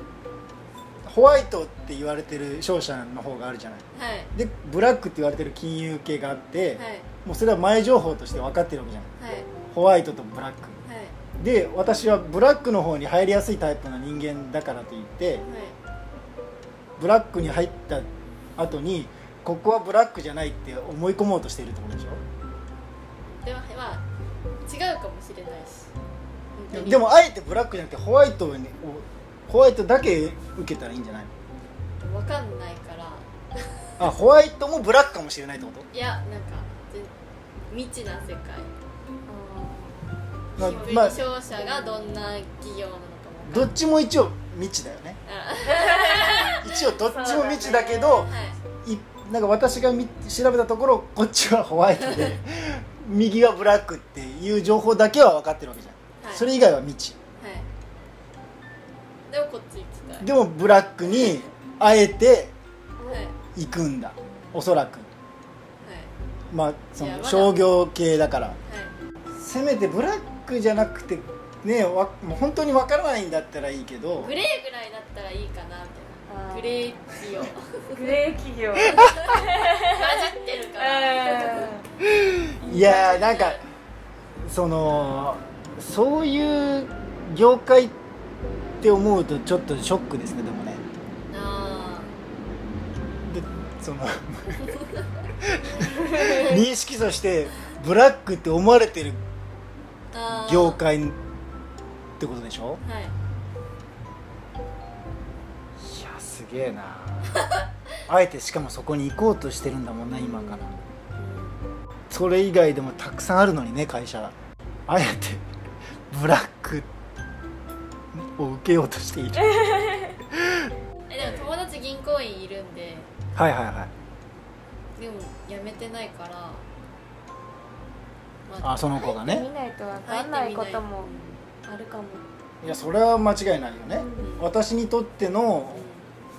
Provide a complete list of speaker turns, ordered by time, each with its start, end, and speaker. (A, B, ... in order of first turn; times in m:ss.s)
0:01.0-0:03.8 A
0:03.9-0:04.3 B
0:04.3-0:09.1 A
0:06.8-0:07.1 B
0:09.2-0:09.5 B
0:09.7-0:10.8 A
0:10.8-0:11.2 B
0:11.4-0:15.4 A
0:15.4-0:15.8 B
0:17.0-0:22.2 A
0:23.3-0:24.0 B
0:24.7-0:25.9 B
0:26.6-0:27.1 B
0:26.7-0:31.3 A
0:32.0-0:33.6 B
0:34.0-0:35.9 A
0:35.9-0:37.1 B
0:37.7-0:38.7 B
0:39.3-0:40.0 C
0:40.5-0:43.7 B
0:40.6-0:41.2 A
0:43.5-0:45.2 A
0:45.3-0:46.7 B
0:46.5-0:48.3 A
0:47.0-0:48.3 C
0:47.9-0:48.6 B
0:48.8-0:57.2 A
0:56.2-0:56.5 B
0:57.4-0:57.7 B
0:59.3-1:00.3 B
1:00.2-1:02.5 A
1:03.0-1:03.4 B
1:03.6-1:05.1 A
1:05.8-1:06.1 B
1:06.5-1:08.6 A
1:07.0-1:07.6 B
1:08.6-1:09.0 B
1:09.3-1:14.3 A
1:14.2-1:18.0 B
1:16.3-1:16.9 C
1:17.9-1:20.1 C
1:19.0-1:21.8 B
1:20.8-1:21.9 C
1:22.1-1:23.6 A
1:22.6-1:23.2 C
1:22.8-1:23.6 B
1:24.4-1:27.9 A
1:28.8-1:30.8 A
1:31.3-1:32.1 B
1:33.3-1:34.8 A
1:35.5-1:39.2 A
1:40.1-1:40.8 B
1:40.4-1:41.2 A
1:42.2-1:42.8 A
1:42.8-1:43.1 B
1:45.8-1:47.4 A
1:48.1-1:50.7 A
1:50.2-1:50.7 C
1:51.2-1:51.6 B
1:52.1-1:54.3 A
1:54.9-1:55.4 A
1:56.1-1:56.9 A
1:58.1-1:59.6 A
2:00.3-2:00.7 A
2:01.1-2:03.1 B
2:03.4-2:03.9 A
2:05.0-2:06.7 B
2:08.5-2:09.1 B
2:08.6-2:09.5 A
2:09.0-2:11.1 C
2:10.0-2:10.9 B
2:11.6-2:12.2 C
2:12.6-2:15.8 A
2:13.9-2:14.3 C
2:14.2-2:14.5 B
2:15.7-2:16.2 B